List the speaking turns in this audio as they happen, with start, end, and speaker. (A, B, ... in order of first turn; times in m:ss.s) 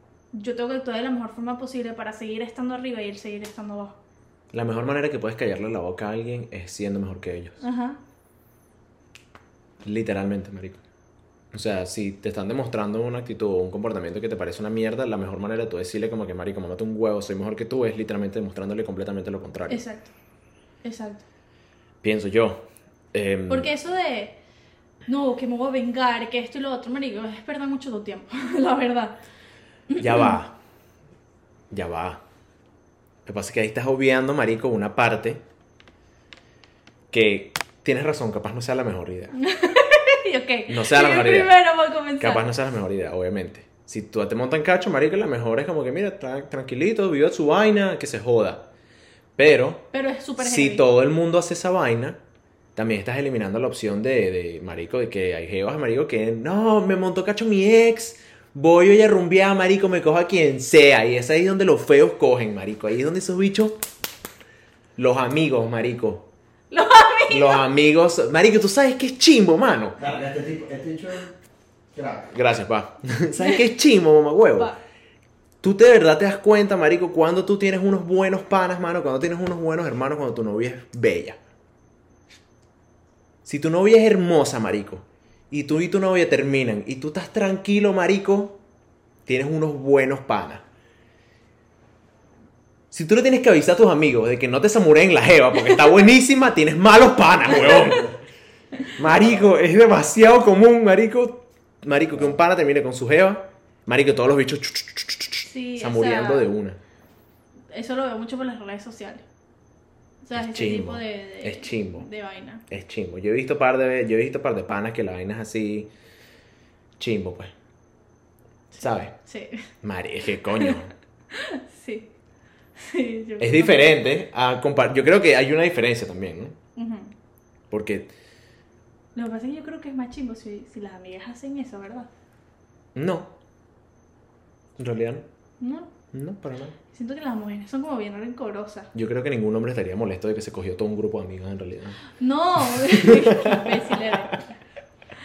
0:00.3-0:04.0 A
0:04.5-0:07.6 B
0:07.6-0:08.0 A
0:09.8-0:10.8 B
0:11.5-0:19.8 B
0:19.7-0:20.1 A
0:20.8-0:21.2 A
0:22.0-0:23.7 B
0:23.5-0:24.4 A
0:25.1-0:29.2 A
0:29.9-0:30.4 A
0:30.0-0:30.5 B
0:31.7-0:32.2 B
0:33.2-0:35.4 B
0:37.1-0:39.4 B
0:39.4-0:42.4 A
0:40.7-0:41.6 B
0:42.2-0:48.7 B
0:49.4-0:49.9 B
0:49.9-0:50.8 A
0:50.4-0:52.2 B
0:52.8-1:03.8 B
1:05.0-1:06.3 B
1:06.7-1:07.6 A
1:07.3-1:10.0 B
1:10.0-1:11.3 C
1:11.9-1:12.3 C
1:12.3-1:14.7 B
1:15.6-1:21.4 B
1:23.4-1:28.6 B
1:29.2-1:30.6 B
1:32.9-1:38.1 B
1:37.5-1:38.0 A
1:39.0-1:46.8 B
1:39.2-1:39.4 C
1:45.4-1:46.5 A
1:47.7-1:49.2 A
1:50.2-1:52.6 A
1:50.3-1:52.1 B
1:52.7-1:55.9 B
1:57.0-1:57.5 B
1:58.7-1:59.7 A
1:58.8-1:59.1 B
1:59.8-2:00.9 B
2:01.3-2:02.1 A
2:02.8-2:04.0 A
2:03.4-2:06.5 B
2:06.8-2:07.1 A
2:07.7-2:08.1 B
2:09.1-2:12.1 A
2:12.9-2:13.3 B
2:14.8-2:15.2 B
2:15.6-2:15.9 A
2:16.1-2:16.8 B
2:16.9-2:18.9 A
2:18.9-2:22.0 B
2:22.2-2:24.4 A
2:22.7-2:24.4 B